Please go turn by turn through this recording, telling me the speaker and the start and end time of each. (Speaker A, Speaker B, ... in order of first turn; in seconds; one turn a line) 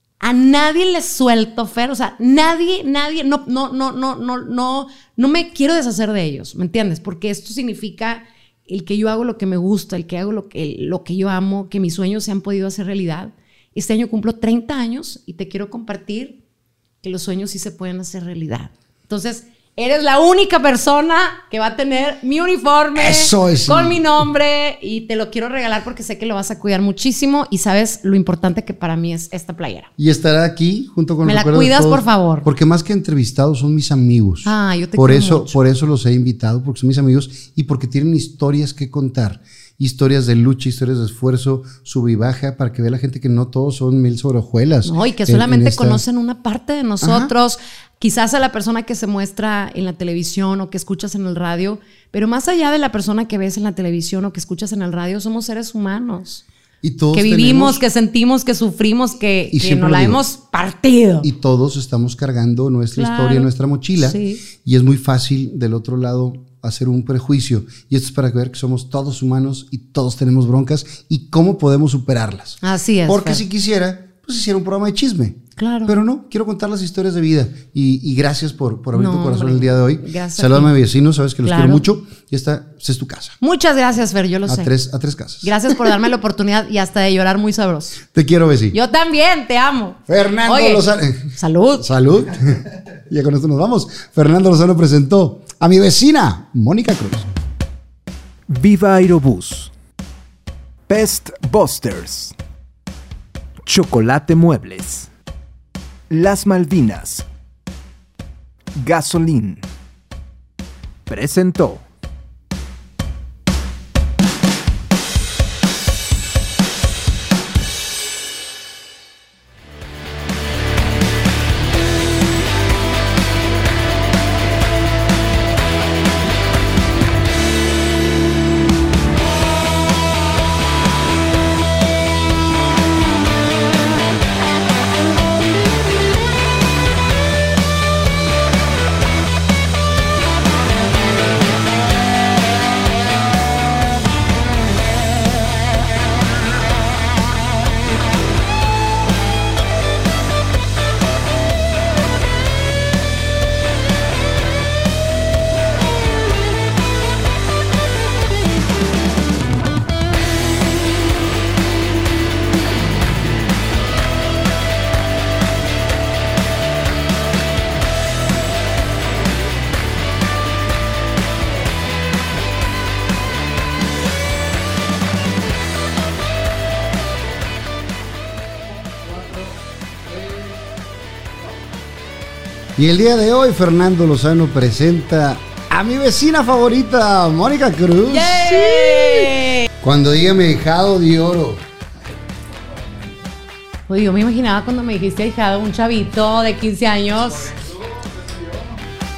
Speaker A: 0.2-16.4
Speaker A: 17.0-29.9
Speaker B: 22.9-24.0
Speaker B: 30.0-46.0
Speaker A: 31.2-32.5
Speaker A: 34.4-35.6
Speaker A: 44.8-56.4
Speaker B: 47.0-47.3
Speaker B: 56.8-57.8
Speaker A: 57.1-61.3
Speaker B: 59.5-60.2
Speaker B: 61.2-83.4
Speaker A: 62.9-64.4
Speaker A: 72.6-73.4
Speaker A: 75.6-75.9
Speaker A: 78.9-80.7
Speaker A: 81.4-81.8
Speaker A: 83.4-84.7
Speaker B: 84.5-85.8
Speaker A: 85.4-88.0
Speaker B: 88.1-88.8
Speaker A: 88.7-91.9
Speaker B: 90.1-97.3
Speaker C: 98.5-99.7
Speaker C: 100.9-102.3
Speaker C: 103.6-105.1
Speaker C: 106.1-107.2
Speaker C: 108.7-109.6
Speaker C: 111.1-111.8
Speaker B: 182.8-189.1
Speaker A: 188.1-189.7
Speaker B: 189.8-191.6
Speaker A: 193.9-197.6